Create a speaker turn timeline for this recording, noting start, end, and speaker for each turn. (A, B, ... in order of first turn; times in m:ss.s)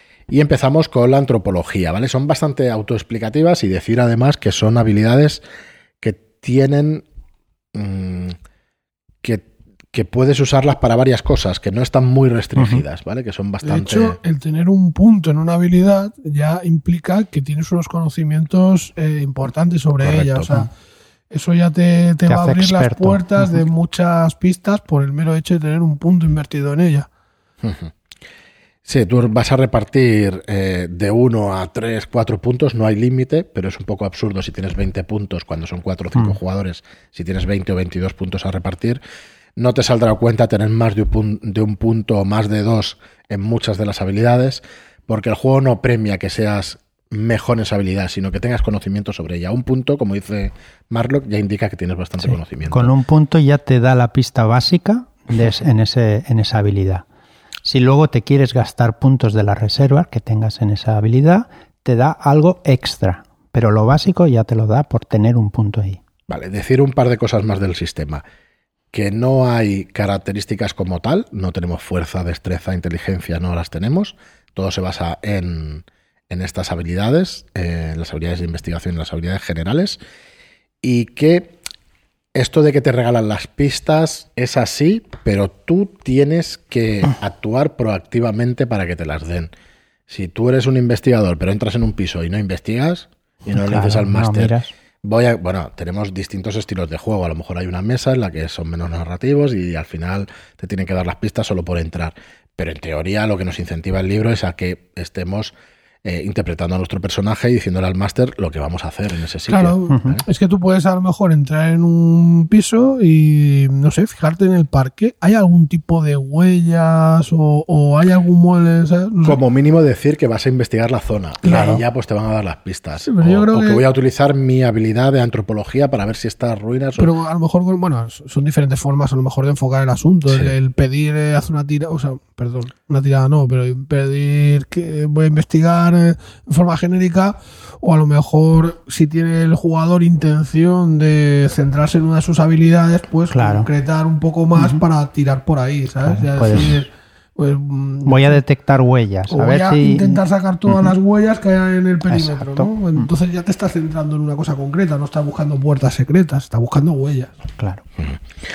0:00.3-0:05.4 A
0:06.0-0:07.0 A
0:07.7-0:08.4 A
0:09.2-0:14.2 A
0:12.6-0:12.8 B
0:13.6-0:20.7 C
0:20.0-0:20.6 A
0:21.3-0:27.1 C
0:22.2-0:23.6 B
0:27.6-0:27.9 A
0:28.8-0:39.0 A
0:39.6-0:52.9 A
0:52.2-0:57.0 B
0:57.6-1:06.0 B
1:06.3-1:08.2 A
1:08.9-1:20.0 A
1:20.8-1:21.6 A
1:22.3-1:29.5 A
1:30.1-1:50.2 A
1:33.5-1:34.7 B
1:49.5-1:59.4 C
1:59.2-2:07.1 A
2:01.4-2:01.8 C
2:01.5-2:01.8 B
2:03.0-2:03.8 C
2:07.0-2:28.4 C
2:23.3-2:23.7 B
2:24.6-2:24.8 B
2:26.0-2:26.8 B
2:28.0-2:30.9 B
2:29.3-2:37.3 C
2:32.1-2:33.1 B
2:37.6-2:37.8 B